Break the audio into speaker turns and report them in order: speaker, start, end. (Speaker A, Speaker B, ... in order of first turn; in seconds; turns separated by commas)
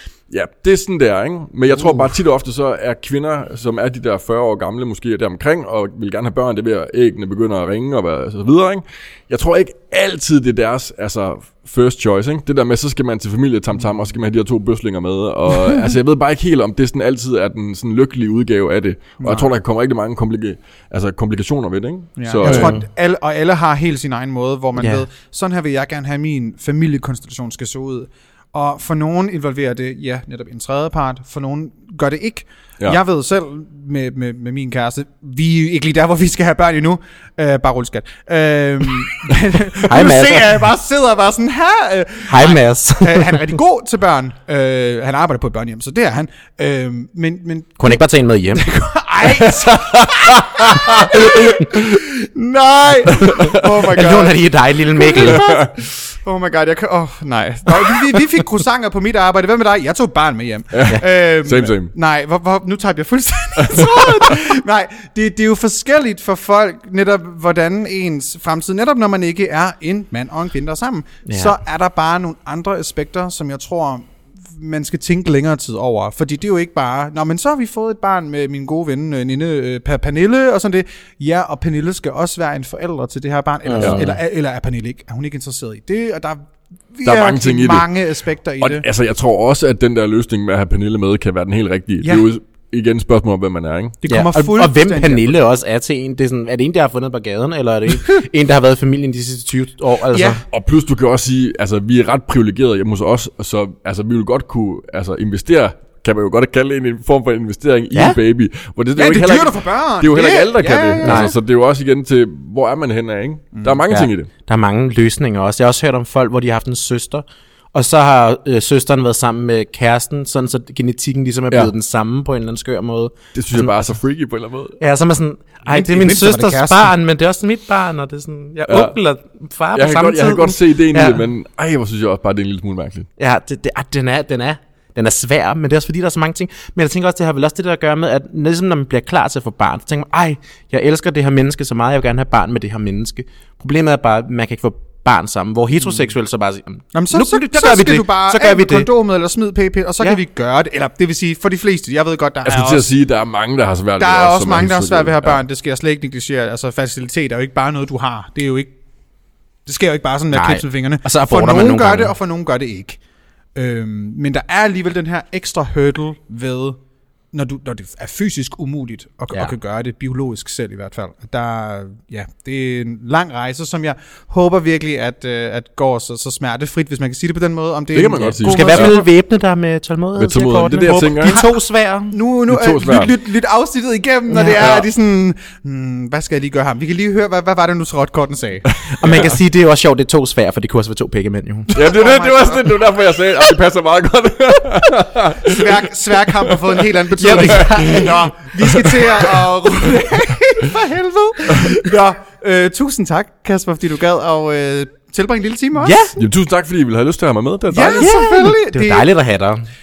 Speaker A: 0.3-22.7, Speaker B: 19.2-19.5, Speaker B: 22.2-48.0, Speaker C: 22.4-22.8, Speaker C: 24.8-25.0, Speaker C: 39.9-40.6, Speaker C: 42.3-43.5, Speaker C: 47.8-48.6, Speaker B: 48.5-54.4, Speaker C: 49.2-51.6, Speaker A: 53.2-53.7, Speaker C: 53.9-55.6, Speaker B: 54.9-86.4, Speaker A: 55.2-55.6, Speaker A: 60.7-61.9, Speaker A: 63.6-64.3, Speaker C: 71.3-71.5, Speaker C: 83.6-84.2, Speaker A: 83.8-84.0, Speaker B: 86.9-88.8, Speaker A: 87.0-87.9, Speaker A: 88.6-94.0, Speaker B: 94.0-95.3, Speaker C: 94.1-100.4, Speaker B: 100.1-100.4, Speaker A: 100.5-114.3, Speaker C: 107.9-108.2, Speaker B: 109.0-111.3, Speaker C: 111.0-111.3, Speaker B: 113.5-113.8, Speaker C: 113.9-123.7, Speaker A: 123.3-124.8, Speaker C: 124.8-131.2, Speaker B: 125.7-126.9, Speaker A: 128.7-128.9, Speaker A: 129.7-133.1, Speaker C: 133.2-148.9, Speaker B: 146.9-152.9, Speaker A: 152.4-155.4, Speaker B: 154.0-158.7, Speaker B: 159.7-163.0, Speaker C: 160.3-162.1, Speaker B: 163.6-166.8, Speaker B: 167.3-179.1, Speaker A: 177.9-179.0, Speaker C: 178.4-182.1, Speaker A: 180.2-181.4, Speaker B: 181.2-181.5, Speaker B: 182.1-188.7, Speaker A: 182.5-183.1, Speaker C: 184.3-184.6, Speaker A: 184.6-184.9, Speaker A: 188.9-189.2, Speaker C: 189.0-191.8, Speaker B: 191.7-192.8, Speaker A: 191.7-199.4, Speaker B: 195.4-206.0, Speaker C: 197.2-198.3, Speaker C: 205.8-206.2, Speaker A: 206.2-208.1, Speaker B: 207.7-209.1, Speaker C: 207.9-209.7